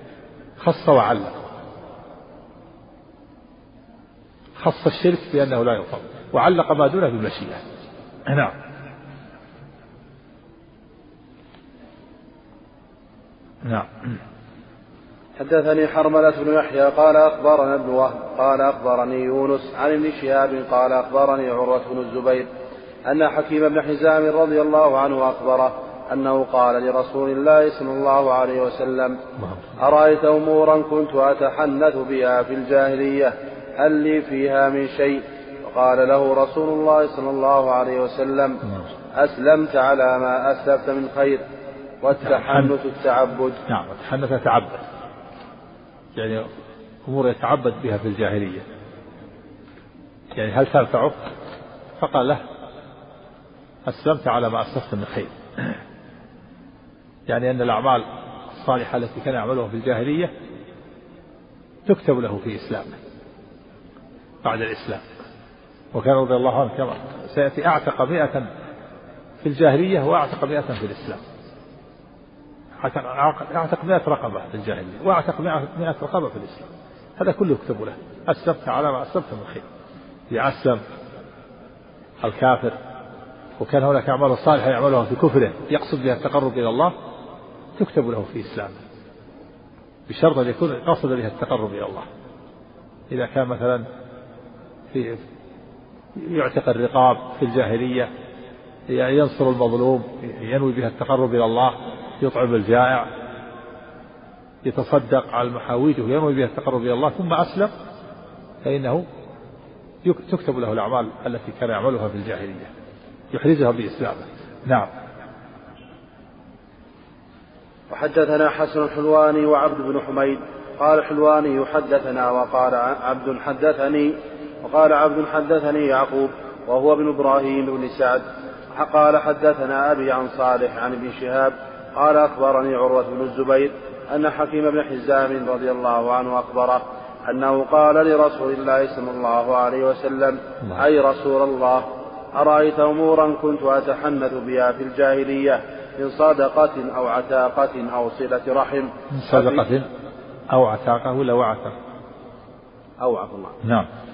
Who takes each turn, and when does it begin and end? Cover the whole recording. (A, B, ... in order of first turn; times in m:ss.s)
0:00.6-0:01.4 A
0:04.6-0:07.6 A
0:08.3-0:08.5 A
0:13.6-0:14.2 A
0:15.4-0:22.5 B
0:23.1-0:29.2 B
0:29.4-0:29.7 A
0:29.8-0:38.6 B
0:39.2-0:41.4 B
0:42.0-0:43.6 B
0:42.2-0:42.7 A
0:43.7-0:44.8 A
0:46.2-0:46.5 A
0:47.0-0:48.6 A
0:50.4-0:51.3 A
0:52.0-0:52.4 A
0:53.9-0:55.8 A
0:57.3-1:00.3 A
1:01.9-1:03.0 A
1:04.4-1:05.1 A
1:05.9-1:08.5 A
1:09.4-1:11.2 A
1:12.8-1:19.7 A
1:20.3-1:20.8 A
1:22.2-1:22.8 A
1:23.6-1:27.0 A
1:27.8-1:28.8 A
1:30.1-1:32.1 A
1:33.1-1:33.8 A
1:34.9-1:35.2 A
1:36.2-1:38.1 A
1:38.9-1:43.1 A
1:44.6-1:47.7 A
1:48.6-1:49.0 A
1:50.0-1:52.7 A
1:53.3-1:54.9 A
1:57.9-2:08.2 B
2:08.7-2:29.6 B
2:29.1-2:29.9 A
2:30.5-2:31.7 A
2:33.0-2:33.6 B
2:33.6-2:33.9 A